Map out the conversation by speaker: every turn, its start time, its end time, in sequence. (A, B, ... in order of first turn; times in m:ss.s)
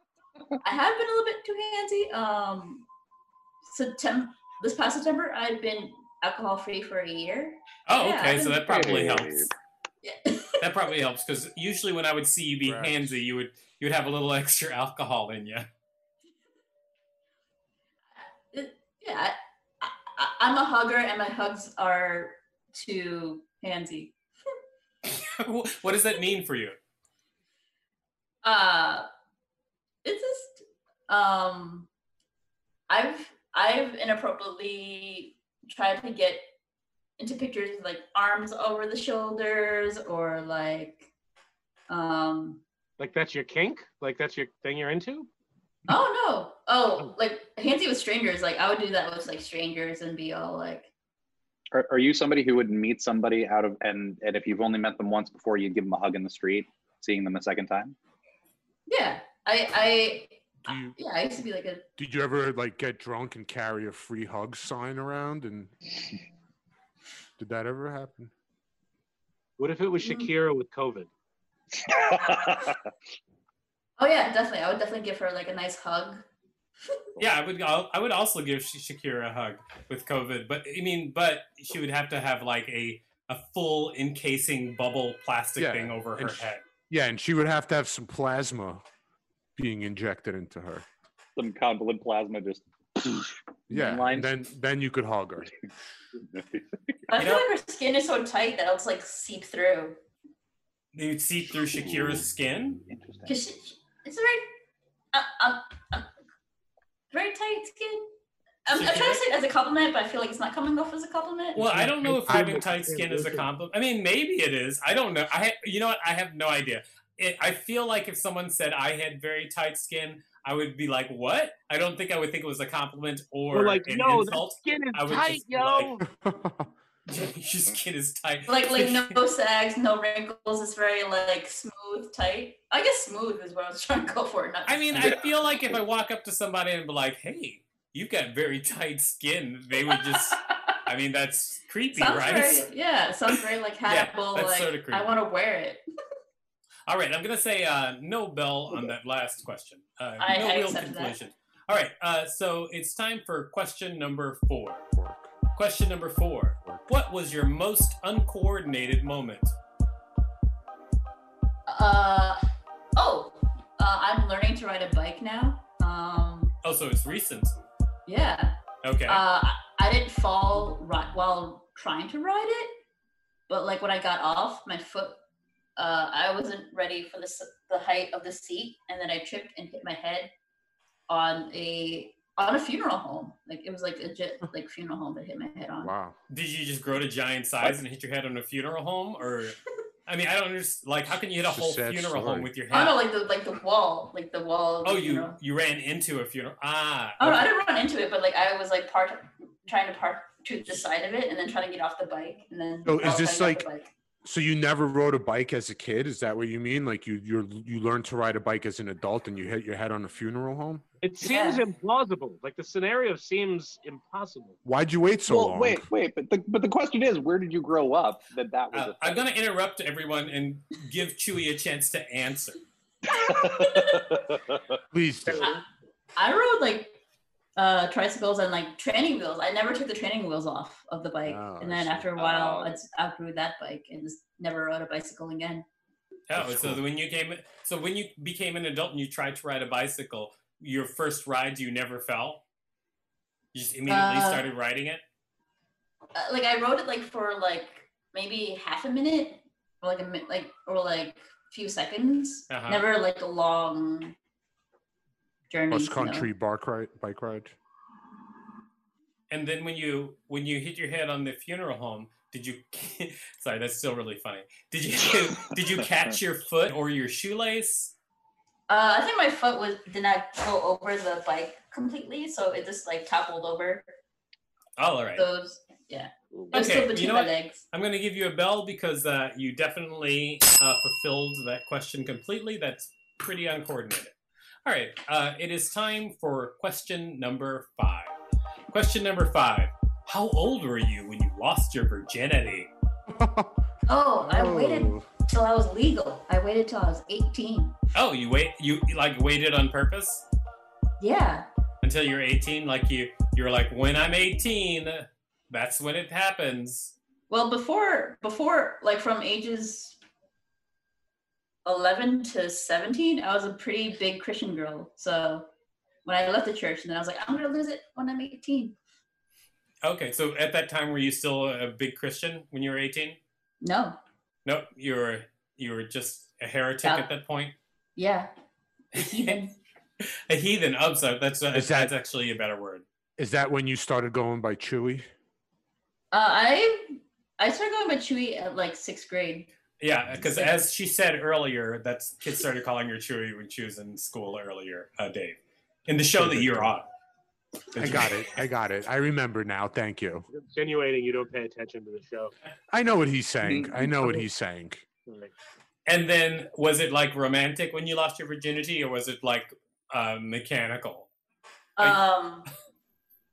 0:00.6-0:02.9 A
0:03.6-0:08.7 A
0:07.9-0:09.5 B
0:08.7-0:09.5 C
0:10.0-0:10.6 A
0:10.6-0:15.7 B
0:12.6-0:13.2 D
0:18.5-0:24.2 A
0:25.2-0:26.8 B
0:28.4-0:29.1 A
0:30.0-0:31.9 A
0:32.9-0:36.4 A
0:37.2-0:41.1 A
0:41.9-0:42.6 A
0:43.0-0:45.3 E
0:45.9-0:50.9 A
0:51.7-0:58.0 C
0:58.9-1:01.9 A
1:00.6-1:01.0 D
1:02.0-1:05.8 D
1:07.4-1:08.3 D
1:09.6-1:11.1 E
1:10.0-1:10.3 A
1:11.8-1:12.8 C
1:14.0-1:16.2 A
1:17.2-1:26.6 B
1:25.6-1:28.8 D
1:29.6-1:30.8 D
1:31.4-1:34.3 C
1:33.7-1:35.5 D
1:36.3-1:36.6 C
1:37.1-1:40.0 A
1:37.2-1:37.5 B
1:40.9-1:42.8 B
1:42.9-1:43.3 C
1:43.3-1:44.6 A
1:45.1-1:46.1 A
1:47.1-1:48.1 A
1:48.7-1:51.6 A
1:48.7-1:49.2 B
1:51.6-2:05.9 B
1:51.6-1:53.5 E
1:52.3-1:52.6 D
2:03.5-2:06.0 E
2:06.0-2:06.7 D
2:07.1-2:09.2 B
2:08.5-2:15.2 A
2:14.7-2:22.7 B
2:19.9-2:20.8 A
2:21.9-2:25.8 A
2:23.9-2:25.1 B
2:26.9-2:34.8 B
2:30.2-2:31.2 A
2:34.9-2:35.3 D
2:35.6-2:39.5 B
2:41.7-2:42.4 A
2:43.0-2:46.5 A
2:46.6-2:47.6 B
2:48.1-2:52.8 A
2:48.8-2:49.2 B
2:53.5-2:55.2 A
2:55.8-3:00.3 A
3:01.1-3:05.9 A
3:05.8-3:06.2 D
3:06.3-3:13.0 B
3:11.4-3:12.5 D
3:12.7-3:15.4 A
3:14.8-3:17.5 B
3:17.2-3:23.9 A
3:22.8-3:23.7 D
3:24.2-3:30.8 D
3:31.0-3:34.6 E
3:31.2-3:31.6 A
3:34.6-3:35.9 D
3:35.3-3:39.2 C
3:38.7-3:42.6 B
3:43.1-3:44.6 C
3:43.2-3:44.1 A
3:44.9-3:45.5 D
3:46.2-3:47.0 A
3:47.6-3:55.7 A
3:51.3-3:52.1 D
3:52.2-3:52.8 C
3:56.3-4:02.4 B
3:56.4-3:56.8 D
4:03.5-4:05.0 B
4:03.9-4:04.4 A
4:06.2-4:14.2 A
4:12.5-4:12.8 B
4:15.5-4:16.3 A
4:15.7-4:17.6 D
4:19.3-4:27.9 B
4:28.7-4:33.9 A
4:34.8-4:35.2 B
4:35.2-4:37.6 A
4:36.5-4:44.1 B
4:44.6-4:48.2 B
4:48.7-4:52.7 B
4:53.1-4:53.6 D
4:53.9-4:57.8 A
4:54.2-4:55.1 D
4:58.0-5:00.2 B
5:01.0-5:01.5 A
5:01.8-5:07.0 B
5:07.3-5:10.0 A
5:11.6-5:15.5 A
5:16.0-5:18.8 A
5:19.8-5:23.2 B
5:23.6-5:24.0 A
5:24.4-5:27.6 B
5:28.0-5:28.3 A
5:28.9-5:29.6 A
5:29.0-5:29.4 B
5:30.0-5:32.8 B
5:31.5-5:31.9 D
5:33.2-5:35.1 D
5:36.1-5:39.5 A
5:39.8-5:46.9 B
5:40.2-5:40.6 A
5:46.1-5:46.8 D
5:47.7-5:50.3 D
5:47.8-5:48.2 B
5:50.3-5:52.3 E
5:52.7-5:54.9 D
5:53.4-5:54.2 C
5:55.1-5:55.3 E
5:55.9-6:01.1 B
6:01.8-6:02.5 A